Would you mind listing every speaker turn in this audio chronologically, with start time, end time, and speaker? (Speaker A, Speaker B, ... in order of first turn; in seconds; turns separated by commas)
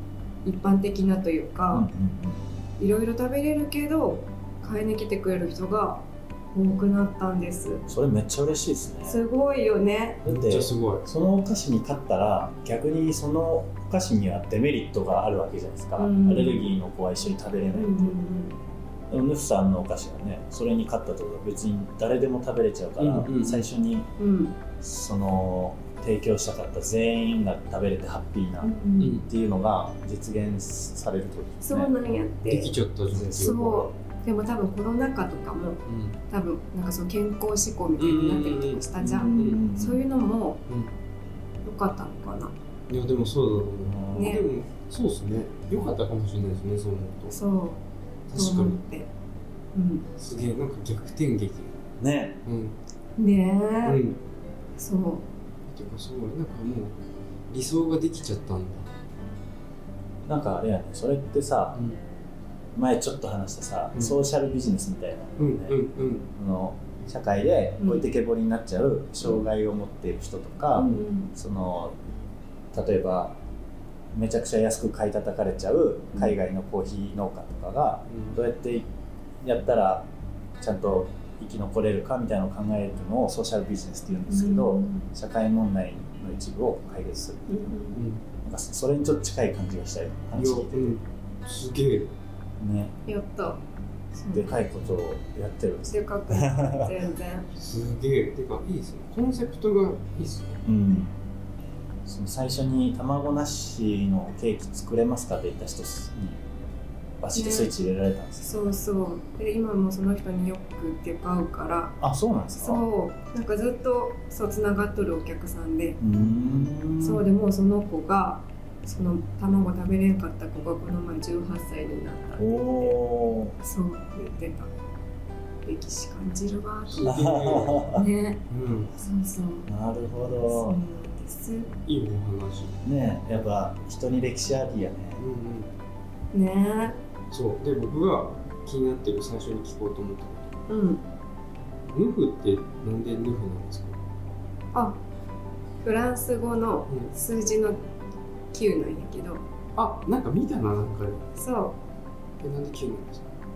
Speaker A: 0.4-1.9, Speaker B: 1.7-2.5, Speaker A: 2.8-7.8, Speaker B: 7.9-9.2, Speaker A: 9.0-10.2, Speaker B: 10.2-18.2, Speaker C: 10.2-11.0, Speaker A: 16.0-16.7, Speaker A: 17.7-18.6, Speaker B: 19.1-24.1, Speaker C: 23.0-23.7, Speaker A: 24.2-24.6, Speaker B: 24.8-31.9, Speaker A: 28.6-29.2, Speaker C: 29.0-29.3, Speaker A: 31.6-32.8, Speaker C: 32.5-33.6, Speaker B: 33.1-33.9, Speaker A: 33.4-40.6, Speaker C: 35.9-36.2, Speaker C: 38.0-39.6, Speaker B: 39.0-40.0, Speaker A: 41.6-42.5, Speaker C: 42.9-47.4, Speaker B: 43.9-44.3, Speaker A: 44.1-44.5, Speaker A: 47.3-47.8, Speaker C: 48.3-48.8, Speaker A: 48.3-49.1, Speaker A: 49.7-50.1, Speaker C: 50.2-51.7, Speaker B: 52.0-52.4, Speaker C: 52.4-52.8, Speaker A: 53.2-54.0, Speaker C: 53.8-54.2, Speaker A: 54.8-55.2, Speaker C: 55.7-57.0, Speaker C: 57.5-58.9, Speaker B: 60.3-61.8, Speaker B: 62.7-71.9, Speaker C: 63.9-64.2, Speaker C: 65.4-66.3, Speaker A: 67.8-68.0, Speaker A: 70.7-71.3, Speaker B: 72.7-73.3, Speaker B: 74.1-78.9, Speaker C: 78.1-78.4, Speaker B: 79.4-80.1, Speaker B: 80.6-87.8, Speaker A: 84.3-85.1, Speaker A: 87.5-88.0, Speaker C: 87.9-88.2, Speaker B: 88.4-90.9, Speaker C: 90.3-92.1, Speaker B: 92.6-92.9, Speaker A: 93.0-93.6, Speaker A: 94.1-94.6, Speaker B: 94.3-96.9, Speaker A: 95.9-97.5, Speaker C: 97.5-100.6, Speaker B: 100.6-101.1, Speaker B: 102.0-106.4, Speaker B: 107.2-108.5, Speaker A: 107.3-107.7, Speaker A: 108.4-112.0, Speaker B: 112.0-112.8, Speaker A: 112.6-116.0, Speaker B: 116.0-117.2, Speaker C: 116.2-116.7, Speaker A: 117.0-123.0, Speaker B: 122.4-123.5, Speaker A: 123.5-124.7, Speaker A: 125.6-127.2, Speaker C: 126.9-127.9, Speaker B: 127.0-128.0, Speaker A: 127.8-129.7, Speaker C: 128.5-128.9, Speaker B: 129.7-130.8, Speaker A: 130.2-131.7, Speaker C: 131.8-132.8, Speaker B: 132.8-135.3, Speaker C: 135.2-135.7, Speaker A: 136.3-137.0, Speaker C: 137.3-140.5, Speaker A: 140.7-141.0, Speaker C: 141.9-144.0, Speaker A: 144.7-145.0, Speaker A: 145.8-147.8, Speaker A: 148.5-149.4, Speaker C: 149.8-151.2, Speaker A: 151.3-151.8, Speaker C: 152.4-153.3